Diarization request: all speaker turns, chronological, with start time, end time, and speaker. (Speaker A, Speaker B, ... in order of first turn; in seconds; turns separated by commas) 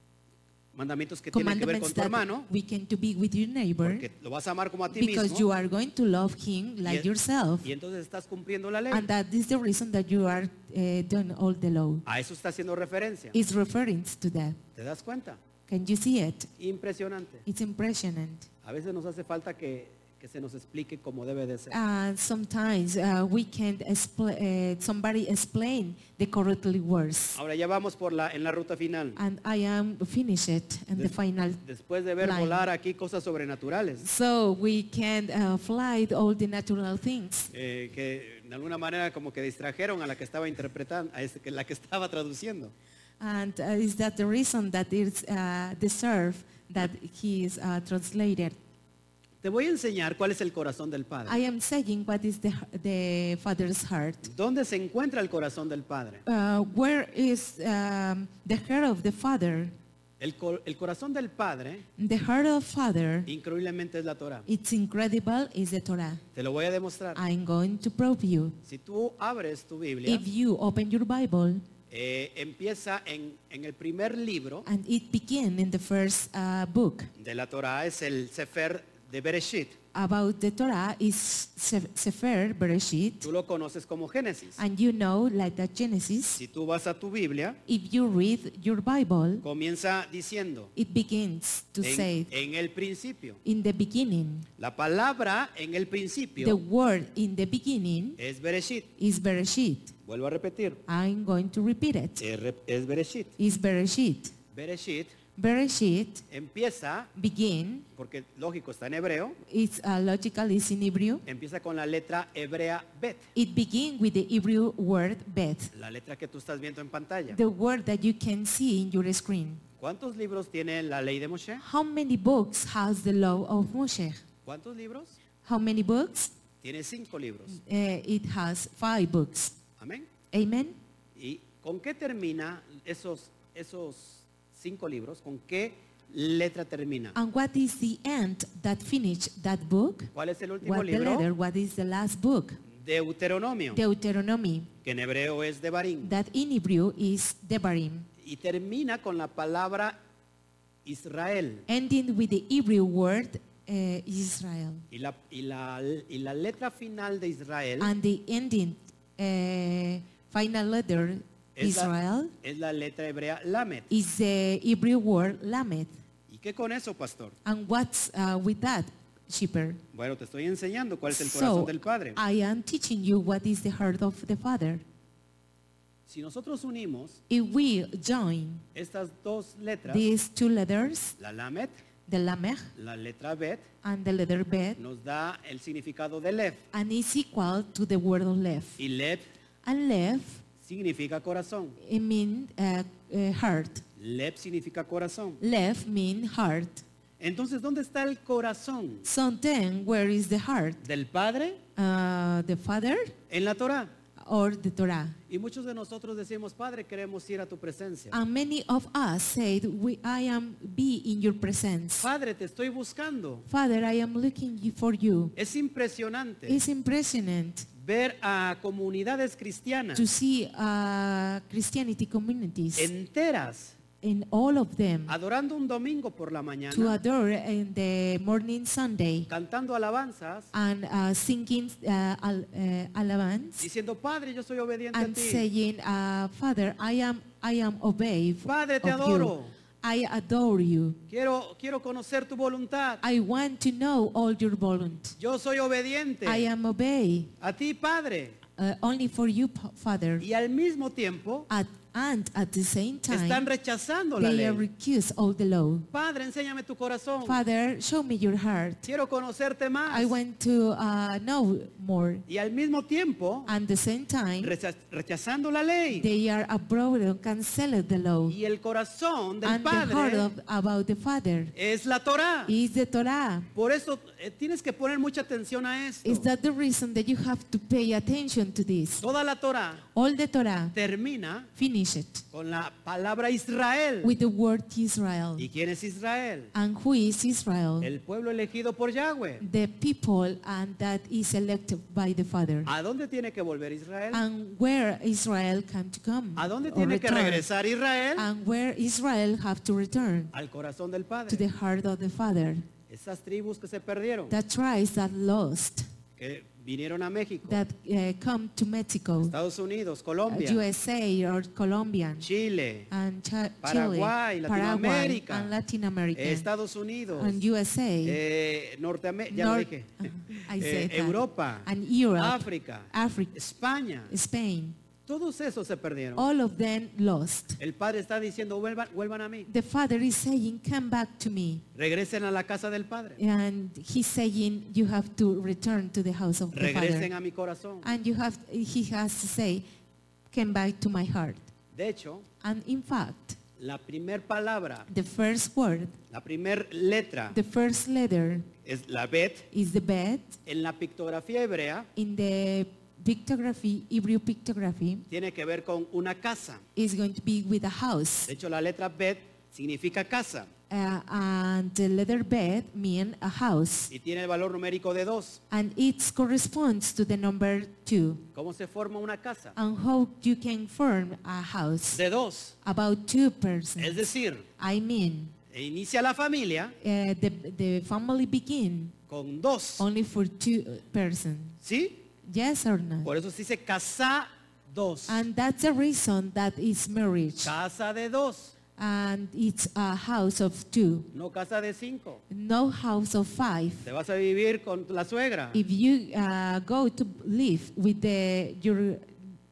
Speaker A: 0.7-2.5, Speaker B: 1.3-4.0, Speaker A: 3.8-5.5, Speaker B: 4.9-7.7, Speaker A: 7.6-9.1, Speaker B: 8.9-12.0, Speaker A: 12.1-13.3, Speaker B: 13.3-14.6, Speaker A: 14.8-15.4, Speaker B: 15.7-16.5, Speaker A: 16.6-17.4, Speaker B: 17.4-18.5, Speaker A: 18.6-21.8, Speaker B: 21.7-27.4, Speaker A: 27.4-29.2, Speaker B: 29.1-31.6, Speaker A: 31.6-34.0, Speaker B: 32.2-32.6, Speaker B: 34.0-37.5, Speaker A: 37.5-42.7, Speaker B: 43.2-48.6, Speaker A: 49.4-51.4, Speaker B: 51.3-54.3, Speaker A: 54.2-56.2, Speaker B: 56.2-59.7, Speaker A: 60.2-61.8, Speaker B: 62.0-63.3, Speaker A: 63.3-64.5, Speaker B: 64.5-66.2, Speaker A: 66.3-67.2, Speaker B: 67.2-68.6, Speaker A: 68.6-70.2, Speaker B: 70.0-71.6, Speaker A: 71.9-74.7, Speaker B: 74.6-77.1, Speaker A: 77.2-79.8, Speaker B: 79.9-83.3, Speaker A: 83.2-84.6, Speaker B: 84.6-86.4, Speaker A: 86.4-87.6, Speaker B: 87.7-89.4, Speaker A: 89.4-90.7, Speaker B: 90.8-92.3, Speaker A: 91.8-93.4, Speaker B: 93.4-94.5, Speaker A: 94.6-96.6, Speaker B: 96.4-98.2, Speaker A: 98.2-98.9, Speaker B: 99.0-99.9, Speaker A: 100.0-100.8, Speaker B: 100.9-102.2, Speaker A: 102.2-103.3, Speaker B: 103.4-104.3, Speaker A: 104.5-105.1, Speaker B: 105.3-106.2, Speaker A: 106.3-107.1, Speaker B: 107.1-107.8, Speaker A: 108.0-109.4, Speaker B: 109.5-111.2, Speaker A: 111.2-113.2, Speaker B: 113.3-115.7, Speaker A: 115.7-117.4, Speaker B: 117.3-119.6, Speaker A: 119.8-121.6, Speaker B: 121.6-124.2, Speaker A: 124.5-125.2, Speaker B: 125.4-126.3, Speaker A: 126.6-127.6, Speaker B: 127.5-129.6, Speaker A: 129.8-130.1, Speaker B: 130.3-130.8, Speaker A: 131.2-137.2, Speaker B: 137.1-142.6, Speaker A: 140.1-141.3, Speaker A: 142.7-143.8, Speaker B: 143.7-144.7, Speaker A: 144.8-146.2, Speaker B: 146.0-148.1, Speaker A: 148.2-150.0, Speaker A: 150.8-151.7, Speaker B: 151.7-154.8, Speaker A: 154.9-157.9, Speaker B: 157.8-162.3, Speaker A: 161.6-163.9, Speaker B: 163.9-166.0, Speaker A: 166.3-167.3, Speaker B: 167.4-169.8, Speaker A: 169.9-172.2, Speaker B: 171.1-174.8, Speaker A: 176.1-177.2, Speaker B: 177.3-178.6, Speaker A: 178.7-180.1, Speaker B: 179.9-181.2, Speaker A: 181.2-181.7, Speaker B: 182.1-182.7, Speaker A: 182.8-183.7, Speaker B: 183.8-184.8, Speaker A: 184.8-186.6, Speaker B: 186.7-188.8, Speaker A: 188.8-189.2, Speaker B: 189.6-190.4, Speaker A: 190.6-191.8, Speaker B: 191.8-193.8, Speaker A: 194.0-195.4, Speaker B: 195.4-196.8, Speaker A: 197.2-199.1, Speaker B: 199.0-200.8, Speaker A: 200.8-201.6, Speaker B: 201.8-203.1, Speaker A: 203.3-203.9, Speaker B: 204.2-205.2, Speaker A: 205.3-208.2, Speaker B: 208.1-212.1, Speaker A: 212.0-213.4, Speaker B: 213.5-215.3, Speaker A: 215.3-216.6, Speaker B: 216.5-217.7, Speaker A: 217.8-220.1, Speaker B: 219.9-222.9, Speaker A: 222.8-223.8, Speaker B: 224.0-225.1, Speaker A: 225.1-227.0, Speaker B: 226.7-229.3, Speaker A: 229.3-230.5, Speaker B: 230.5-233.7, Speaker A: 233.6-235.4, Speaker B: 234.9-241.0, Speaker A: 238.4-239.5, Speaker A: 241.1-243.0, Speaker B: 243.0-245.2, Speaker A: 245.2-246.5, Speaker B: 246.2-247.3, Speaker A: 247.4-248.4, Speaker B: 248.6-250.2, Speaker A: 250.2-251.5, Speaker B: 251.5-253.4, Speaker A: 253.1-254.7, Speaker B: 254.2-255.9, Speaker A: 255.9-257.4, Speaker B: 257.2-258.9, Speaker A: 258.8-260.2, Speaker B: 259.9-262.2, Speaker A: 262.3-263.5, Speaker B: 263.4-264.5, Speaker A: 264.4-266.1, Speaker B: 265.9-268.4, Speaker A: 268.3-270.3, Speaker B: 269.4-271.5, Speaker A: 271.5-272.5, Speaker B: 272.4-273.5, Speaker A: 273.5-276.3, Speaker B: 276.0-279.0, Speaker A: 279.0-279.9, Speaker B: 279.9-280.8, Speaker A: 280.7-281.5, Speaker B: 281.6-282.2, Speaker A: 282.3-284.2, Speaker B: 284.0-285.5, Speaker A: 285.4-286.5, Speaker B: 286.5-287.9, Speaker A: 287.8-289.4, Speaker B: 289.4-292.7, Speaker A: 292.6-294.2, Speaker B: 294.1-297.5, Speaker A: 296.4-298.3, Speaker B: 298.1-300.3, Speaker A: 300.3-301.4, Speaker B: 301.3-302.6, Speaker A: 302.9-304.3, Speaker B: 304.3-305.9, Speaker A: 306.2-307.6, Speaker B: 307.5-309.3, Speaker A: 309.2-310.7, Speaker B: 310.3-312.3, Speaker A: 312.2-312.9, Speaker B: 312.9-316.5, Speaker A: 313.6-315.5, Speaker A: 316.1-317.4, Speaker B: 317.1-318.2, Speaker A: 318.0-320.0, Speaker B: 319.3-323.3, Speaker A: 320.6-324.1, Speaker B: 324.1-324.8, Speaker A: 325.1-326.3, Speaker B: 326.1-327.6, Speaker A: 327.6-329.5, Speaker B: 329.5-331.6, Speaker A: 331.7-333.2, Speaker B: 333.2-337.1, Speaker A: 336.5-337.9, Speaker B: 337.8-339.6, Speaker B: 340.3-341.5, Speaker A: 341.7-342.2, Speaker B: 342.4-343.4, Speaker A: 343.6-344.9, Speaker B: 344.9-345.9, Speaker A: 346.1-347.4, Speaker B: 347.3-348.5, Speaker A: 348.6-349.5, Speaker B: 349.5-350.4, Speaker A: 350.4-351.9, Speaker B: 351.9-355.0, Speaker A: 355.1-356.6, Speaker B: 356.8-358.3, Speaker A: 358.3-360.5, Speaker B: 360.7-363.9, Speaker A: 363.9-365.4, Speaker B: 365.5-368.2, Speaker A: 368.3-369.6, Speaker B: 369.6-372.0, Speaker A: 371.9-372.5, Speaker B: 372.6-374.1, Speaker A: 373.8-374.4, Speaker B: 374.6-375.3, Speaker A: 375.5-376.8, Speaker B: 376.8-378.9, Speaker A: 379.1-379.9, Speaker B: 379.8-381.6, Speaker A: 381.6-382.0, Speaker B: 382.2-383.1, Speaker A: 383.0-385.2, Speaker B: 385.1-387.5, Speaker A: 387.4-388.5, Speaker B: 388.8-391.1, Speaker A: 391.1-392.2, Speaker B: 392.3-393.9, Speaker A: 393.8-395.6, Speaker B: 395.5-399.2